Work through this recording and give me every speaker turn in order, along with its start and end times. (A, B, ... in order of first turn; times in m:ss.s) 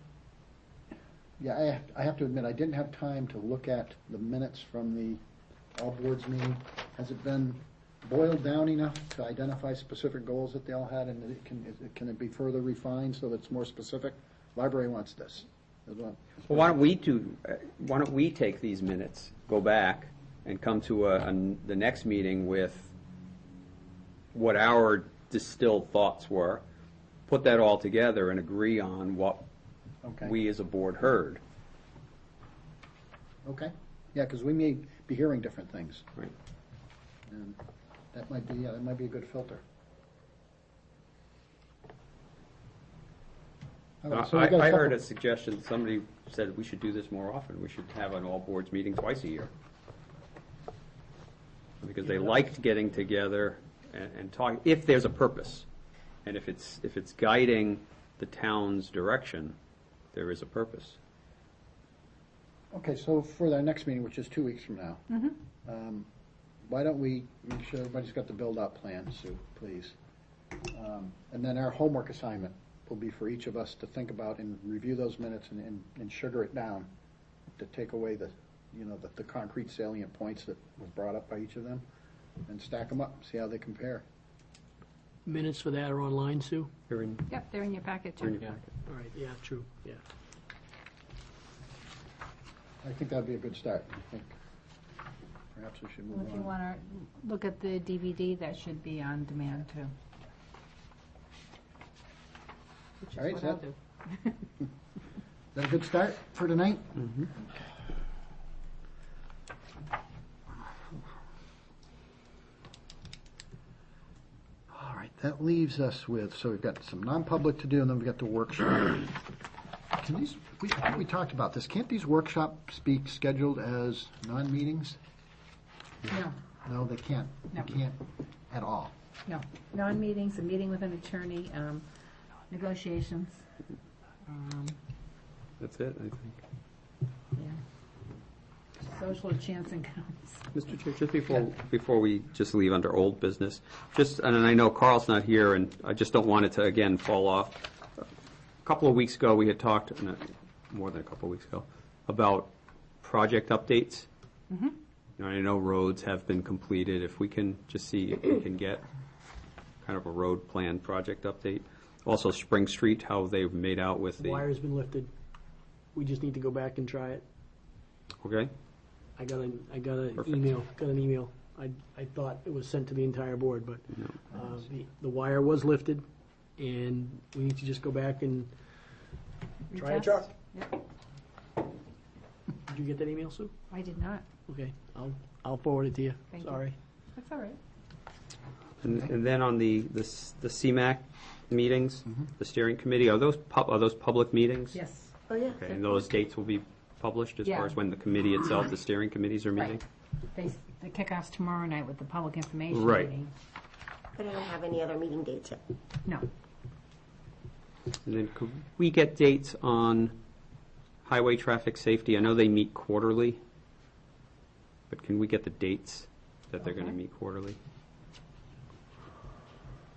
0:01.4-0:05.2 A
0:05.8-0:16.7 A
0:16.5-0:22.9 B
0:24.3-0:26.6 B
0:27.3-0:29.4 B
0:30.0-0:30.4 A
0:30.2-0:31.4 B
0:33.4-0:36.1 A
0:37.3-0:37.6 A
0:38.1-0:39.6 A
0:44.0-0:45.0 A
0:44.1-0:49.5 B
0:51.8-0:55.7 B
0:56.2-0:59.6 B
1:00.1-1:01.0 B
1:02.7-1:06.1 A
1:06.6-1:09.9 A
1:10.7-1:16.9 A
1:17.6-1:21.8 A
1:22.5-1:24.0 A
1:25.3-1:26.7 C
1:26.9-1:27.3 B
1:27.3-1:28.6 D
1:28.2-1:28.7 B
1:28.9-1:30.0 C
1:32.8-1:34.3 A
1:35.5-1:36.5 A
1:36.1-1:39.9 D
1:43.0-1:44.4 D
1:43.2-1:43.6 A
1:45.5-1:47.5 A
1:54.7-1:59.2 A
2:00.0-2:05.0 A
2:06.1-2:06.3 D
2:06.6-2:08.9 A
2:09.3-2:11.8 D
2:12.5-2:13.4 D
2:14.3-2:14.8 D
2:15.6-2:16.4 B
2:18.8-2:20.5 D
2:20.5-2:28.0 B
2:28.6-2:32.5 B
2:33.0-2:34.1 B
2:35.2-2:38.8 B
2:39.8-2:44.5 B
2:44.3-2:45.1 C
2:46.0-2:47.2 C
2:48.2-2:48.5 B
2:49.2-2:53.8 C
2:54.3-2:56.0 C
2:56.6-2:58.5 C
2:59.7-3:00.7 D
2:59.8-3:00.3 C
3:02.7-3:03.5 C
3:03.7-3:04.2 D
3:04.5-3:06.7 C
3:06.3-3:06.6 D
3:07.2-3:07.6 D
3:08.8-3:14.8 B
3:14.7-3:15.1 D
3:15.3-3:15.8 E
3:15.5-3:19.8 B
3:17.4-3:17.8 D
3:20.3-3:23.3 D
3:22.7-3:23.1 B
3:24.2-3:25.6 E
3:28.0-3:30.2 B
3:31.0-3:33.4 B
3:34.9-3:37.6 B